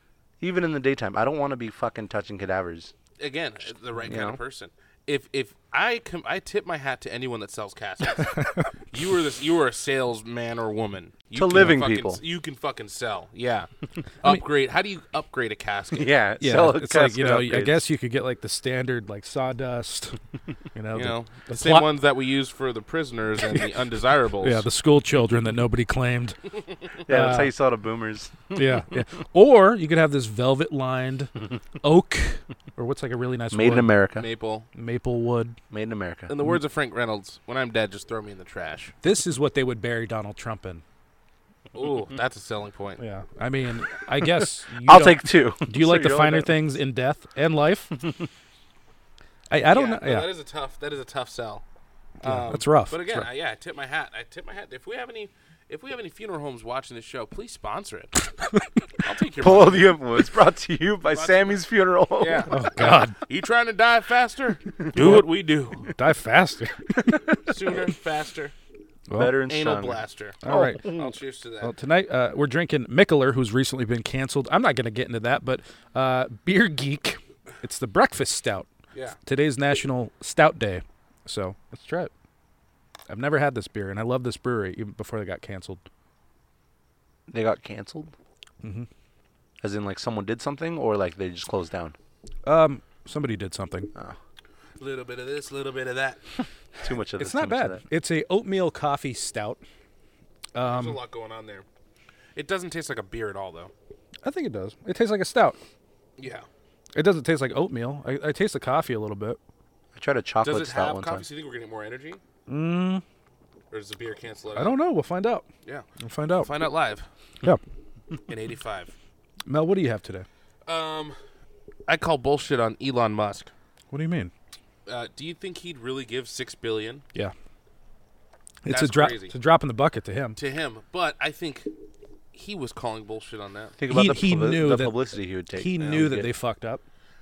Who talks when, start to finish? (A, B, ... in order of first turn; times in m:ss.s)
0:00.4-0:02.9 A
0:03.2-0:13.7 B
0:04.0-0:04.4 A
0:08.2-0:08.7 C
0:11.4-0:12.2 A
0:14.2-0:16.2 B
0:15.9-0:17.8 A
0:16.4-0:20.2 C
0:20.7-0:21.9 C
0:20.9-0:24.6 B
0:24.4-0:26.4 C
0:27.1-0:29.0 A
0:27.1-0:27.5 C
0:28.5-0:34.0 C
0:33.5-0:34.3 A
0:34.2-0:34.7 B
0:34.7-0:35.6 C
0:35.7-0:36.3 A
0:36.3-0:38.9 B
0:39.0-0:40.8 C
0:41.7-0:43.0 B
0:43.0-0:48.1 C
0:44.8-0:46.7 A
0:49.5-0:50.3 C
0:49.7-0:51.6 B
0:52.2-0:53.3 C
0:52.2-0:58.2 B
0:59.0-1:00.0 B
0:59.4-1:02.5 A
1:01.1-1:01.6 B
1:02.2-1:05.9 B
1:02.5-1:03.2 C
1:04.9-1:07.4 C
1:07.4-1:08.6 B
1:09.1-1:09.4 C
1:09.2-1:10.8 A
1:09.5-1:11.7 B
1:10.4-1:11.0 C
1:11.6-1:18.7 C
1:18.9-1:19.2 B
1:19.3-1:22.1 C
1:23.1-1:25.8 C
1:27.3-1:28.1 A
1:28.6-1:28.9 C
1:29.6-1:32.0 A
1:32.4-1:33.9 C
1:34.8-1:36.2 B
1:36.8-1:37.8 A
1:37.2-1:39.6 C
1:40.5-1:41.0 C
1:40.6-1:41.6 B
1:42.4-1:43.7 B
1:44.2-1:45.6 C
1:46.2-1:46.5 B
1:47.0-1:49.4 C
1:50.0-1:51.2 A
1:50.4-1:52.2 B
1:52.5-1:53.0 C
1:53.7-1:54.8 B
1:54.6-1:55.4 C
1:56.0-1:56.5 C
1:56.4-1:57.1 B
1:58.3-1:58.9 B
1:59.5-2:00.3 C
2:00.7-2:01.2 B
2:01.9-2:03.5 B
2:03.9-2:04.3 C
2:04.9-2:07.0 B
2:08.6-2:10.4 C
2:08.7-2:09.3 B
2:10.4-2:11.7 B
2:12.3-2:13.8 B
2:13.8-2:16.3 A
2:13.9-2:15.0 C
2:15.5-2:16.8 C